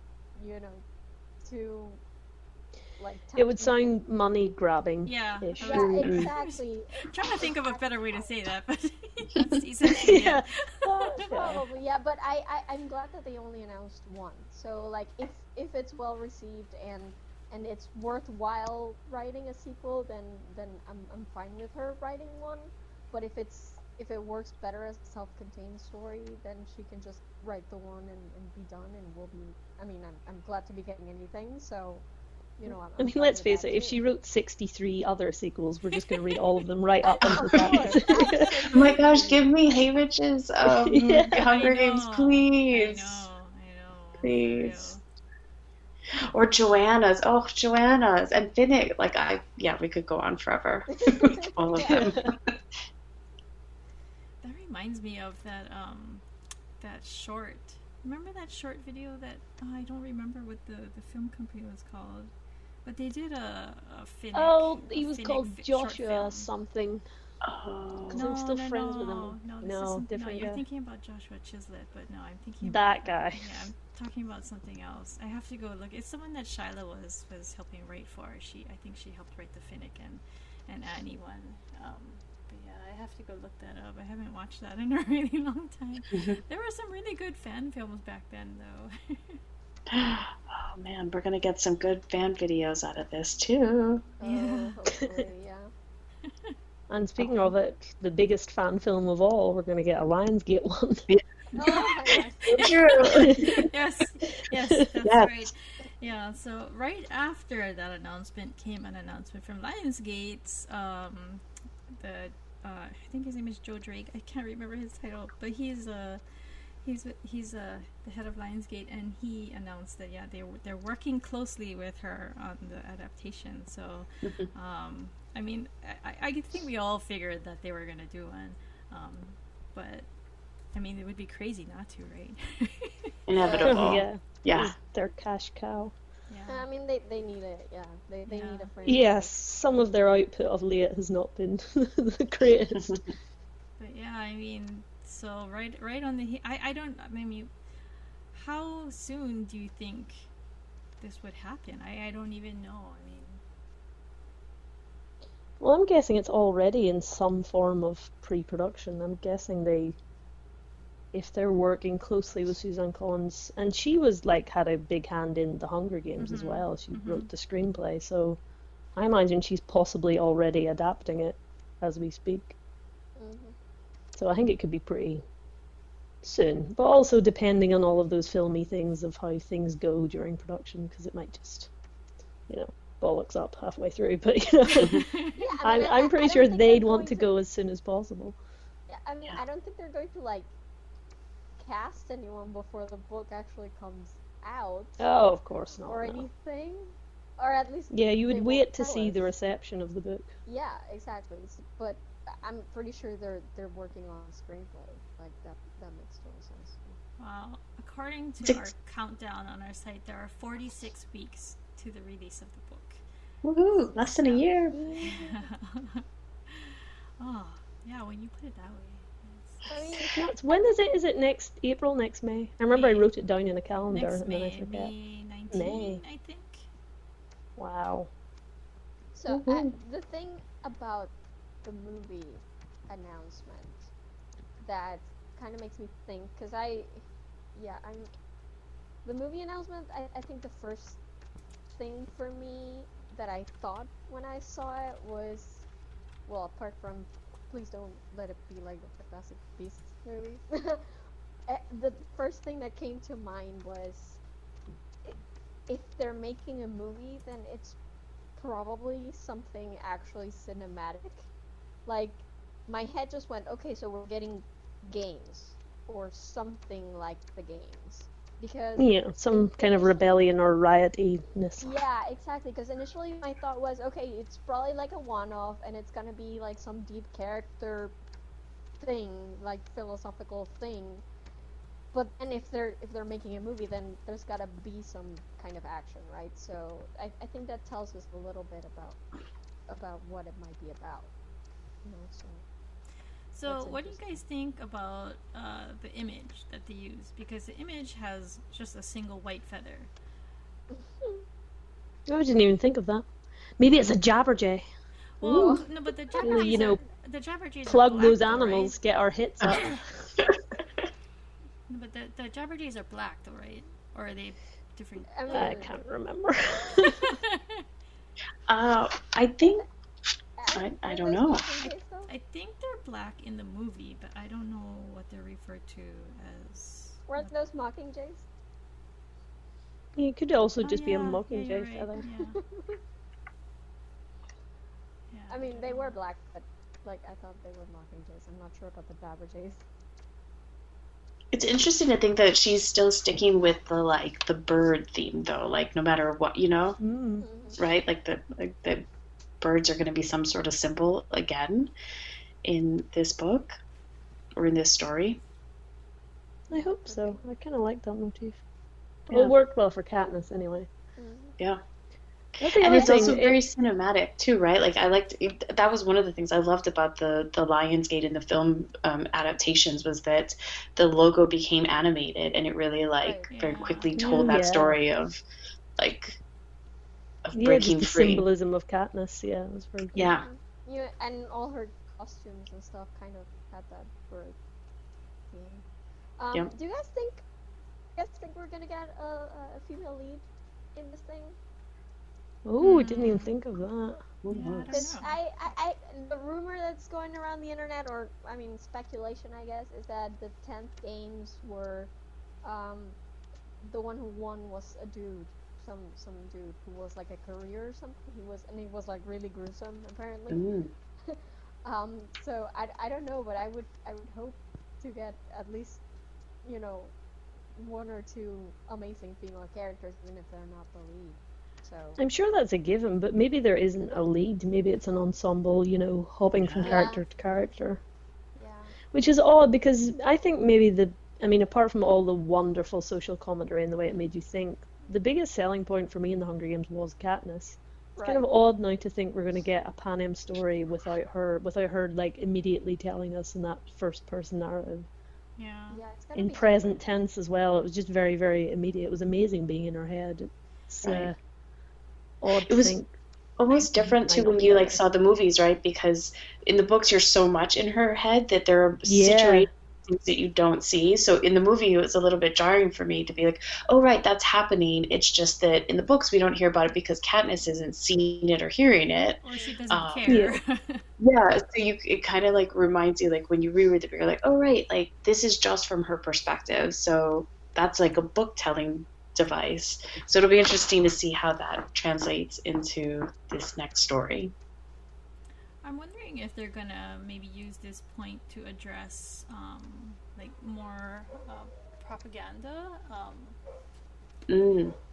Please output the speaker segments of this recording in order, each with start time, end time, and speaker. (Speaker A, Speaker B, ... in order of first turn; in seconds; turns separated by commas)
Speaker A: 0.3-0.8, Speaker A: 1.4-2.0, Speaker A: 3.0-3.9, Speaker B: 3.4-6.1, Speaker C: 5.0-11.2, Speaker A: 5.6-7.8, Speaker B: 9.8-11.6, Speaker A: 11.2-32.0, Speaker A: 32.6-34.0, Speaker B: 33.0-38.7, Speaker C: 35.9-36.4, Speaker A: 37.1-39.5, Speaker D: 37.2-37.7, Speaker D: 38.7-43.3, Speaker B: 40.6-41.5, Speaker C: 41.5-45.0, Speaker D: 44.2-45.0, Speaker D: 46.2-52.6, Speaker A: 51.0-52.1, Speaker B: 51.8-52.3, Speaker C: 54.4-56.2, Speaker C: 56.8-62.3, Speaker C: 62.8-66.5, Speaker B: 64.3-67.0, Speaker D: 67.4-68.2, Speaker B: 68.1-70.6, Speaker C: 68.1-89.4, Speaker B: 72.6-73.7, Speaker D: 86.1-86.4, Speaker D: 89.9-94.1, Speaker A: 94.2-95.7, Speaker C: 94.2-94.8, Speaker B: 96.9-101.1, Speaker A: 101.5-102.8, Speaker C: 101.7-130.1, Speaker D: 102.4-103.7, Speaker B: 103.2-103.7, Speaker B: 104.6-104.8, Speaker D: 105.0-105.3, Speaker C: 130.7-133.1, Speaker D: 133.3-134.7, Speaker A: 133.3-133.9, Speaker B: 133.6-135.9, Speaker C: 136.3-136.7, Speaker A: 136.5-139.3, Speaker C: 138.3-138.7, Speaker B: 138.8-143.0, Speaker C: 143.8-147.5, Speaker C: 148.3-150.3, Speaker C: 151.0-153.4, Speaker B: 155.6-160.0, Speaker B: 161.1-168.4, Speaker C: 166.2-167.3, Speaker B: 168.9-172.5, Speaker A: 173.2-173.5, Speaker B: 174.1-175.2, Speaker B: 176.2-181.7, Speaker B: 182.5-185.1, Speaker C: 184.7-185.3, Speaker A: 185.3-187.3, Speaker B: 185.6-188.4, Speaker A: 188.9-190.5, Speaker A: 191.6-195.1, Speaker B: 195.0-196.3, Speaker A: 195.8-199.3, Speaker B: 197.9-200.3, Speaker A: 200.5-207.0, Speaker C: 207.2-213.0, Speaker D: 213.4-214.8, Speaker C: 213.7-220.1, Speaker A: 214.7-215.5, Speaker A: 219.7-220.9, Speaker B: 220.1-224.9, Speaker C: 222.7-223.1, Speaker C: 223.9-226.7, Speaker B: 225.5-226.0, Speaker B: 227.6-228.1, Speaker A: 229.1-233.9, Speaker B: 229.3-229.7, Speaker A: 234.6-237.0, Speaker A: 237.5-238.1, Speaker A: 239.0-241.0, Speaker A: 241.7-245.6, Speaker A: 246.2-251.0, Speaker A: 251.5-254.2, Speaker A: 255.0-257.8, Speaker A: 258.4-261.3, Speaker A: 261.9-270.2, Speaker B: 268.8-271.8, Speaker A: 271.6-277.9, Speaker A: 278.8-281.0, Speaker A: 281.9-289.0, Speaker A: 289.7-291.1, Speaker A: 291.8-292.4, Speaker C: 293.3-299.9, Speaker A: 293.5-294.2, Speaker A: 300.7-301.2, Speaker B: 302.1-303.1, Speaker B: 303.6-304.6, Speaker C: 305.2-308.8, Speaker B: 305.2-305.6, Speaker A: 305.2-306.7, Speaker B: 306.2-306.8, Speaker B: 307.6-310.1, Speaker C: 309.5-309.8, Speaker C: 311.7-315.8, Speaker A: 315.1-315.8, Speaker B: 315.3-317.2, Speaker C: 316.8-317.6, Speaker D: 318.5-319.6, Speaker A: 320.4-322.1, Speaker D: 320.5-321.5, Speaker C: 321.6-327.3, Speaker A: 327.1-328.3, Speaker B: 329.9-332.0, Speaker C: 330.6-332.4, Speaker A: 332.0-332.8, Speaker C: 335.1-335.9, Speaker A: 335.3-339.6, Speaker D: 341.3-346.8, Speaker B: 346.8-347.2, Speaker A: 347.2-347.6, Speaker D: 347.6-348.8, Speaker D: 349.4-351.7, Speaker D: 352.4-353.5, Speaker D: 354.3-355.2, Speaker B: 356.5-358.4, Speaker A: 356.5-357.2, Speaker B: 359.1-360.7, Speaker A: 361.0-361.4, Speaker D: 362.3-375.2, Speaker B: 362.4-363.4, Speaker A: 362.7-363.2, Speaker A: 373.0-373.3, Speaker C: 373.3-374.4, Speaker B: 374.0-374.8, Speaker D: 375.8-376.2, Speaker D: 377.2-378.2, Speaker B: 377.3-380.1, Speaker D: 379.9-380.3, Speaker A: 380.0-384.4, Speaker A: 385.3-385.6, Speaker A: 386.2-387.2, Speaker A: 387.9-391.4, Speaker B: 392.4-394.0, Speaker C: 392.6-393.3, Speaker D: 394.2-394.9, Speaker C: 394.3-395.2, Speaker A: 394.7-401.9, Speaker A: 402.4-403.0, Speaker A: 403.6-410.4, Speaker D: 410.3-410.7, Speaker A: 411.1-415.8, Speaker A: 416.4-416.9, Speaker A: 417.5-422.0, Speaker B: 422.0-427.8, Speaker D: 426.4-426.8, Speaker A: 426.6-427.1, Speaker A: 428.4-428.8, Speaker B: 428.9-444.9, Speaker A: 437.9-438.3, Speaker C: 445.4-445.8, Speaker A: 445.7-446.9, Speaker B: 446.1-451.1, Speaker D: 450.8-451.1, Speaker B: 452.2-452.9, Speaker D: 452.4-452.7, Speaker D: 453.4-470.0, Speaker C: 453.5-453.9, Speaker B: 453.9-454.8, Speaker B: 458.9-459.5, Speaker C: 469.2-470.8, Speaker A: 469.3-469.6, Speaker B: 470.1-470.4, Speaker D: 471.0-484.3, Speaker C: 485.6-493.4, Speaker D: 494.3-494.8